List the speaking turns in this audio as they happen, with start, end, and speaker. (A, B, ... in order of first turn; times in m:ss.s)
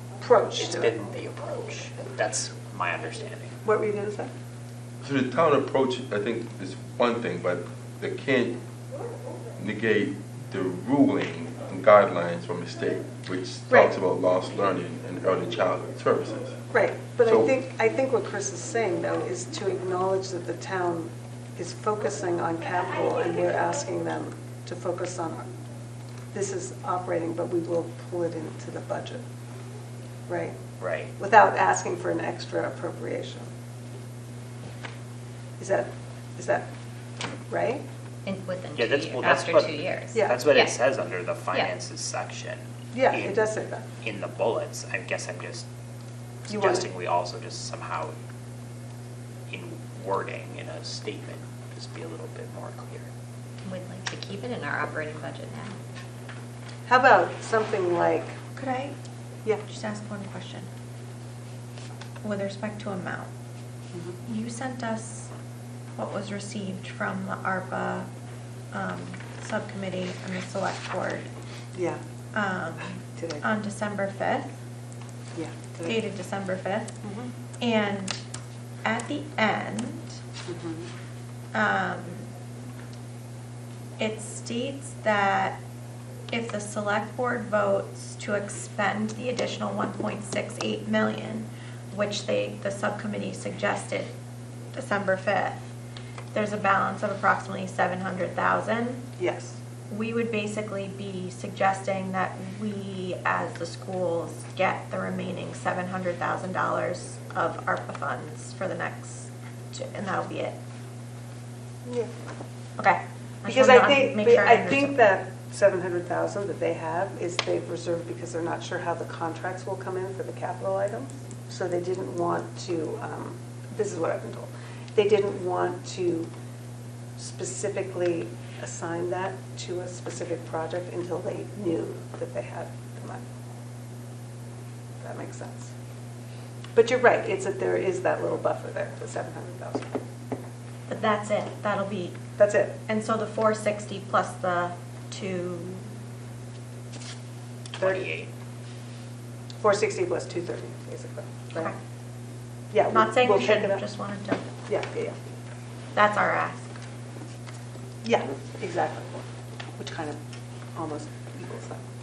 0:00.2-0:01.0 A
0:00.6-0:03.6 B
0:03.6-0:04.3 A
0:05.0-0:08.6 C
0:09.6-0:16.6 C
0:16.7-0:25.4 A
0:17.2-0:17.5 C
0:26.3-0:29.2 A
0:30.3-0:30.6 A
0:30.8-0:31.1 B
0:31.2-0:33.5 A
0:35.6-0:36.7 A
0:37.5-0:37.8 A
0:38.3-0:40.7 D
0:38.7-0:43.5 B
0:40.1-0:40.4 A
0:42.9-0:43.9 A
0:44.0-0:45.7 B
0:46.5-0:48.2 B
0:46.5-0:46.9 A
0:49.5-0:53.1 B
0:53.6-0:55.8 D
0:56.9-0:58.4 A
0:58.6-0:59.0 E
0:59.7-1:00.7 E
1:02.2-1:03.3 E
1:03.9-1:04.2 A
1:04.3-1:05.3 E
1:06.0-1:08.1 E
1:08.7-1:11.3 E
1:11.7-1:12.0 A
1:12.3-1:14.5 E
1:13.1-1:13.4 A
1:15.4-1:16.0 A
1:15.8-1:17.0 E
1:17.0-1:17.3 A
1:17.6-1:18.2 E
1:18.8-1:20.1 E
1:20.5-1:20.9 A
1:21.5-1:22.3 E
1:24.0-1:25.6 E
1:26.3-1:34.1 E
1:34.7-1:35.7 E
1:36.3-1:39.1 E
1:39.2-1:39.6 A
1:39.9-1:50.6 E
1:51.8-1:52.1 A
1:52.8-1:55.0 E
1:53.5-2:06.3 A
2:07.2-2:13.2 A
2:15.0-2:15.7 A
2:16.8-2:20.0 A
2:20.9-2:22.2 E
2:22.4-2:22.8 A
2:22.9-2:25.9 E
2:27.8-2:28.3 B
2:27.8-2:28.0 A
2:29.6-2:31.7 A
2:32.7-2:33.8 A
2:32.9-2:34.5 E
2:34.7-2:35.2 A
2:35.9-2:36.7 E
2:38.0-2:39.2 A
2:39.8-2:40.2 A
2:40.8-2:41.8 A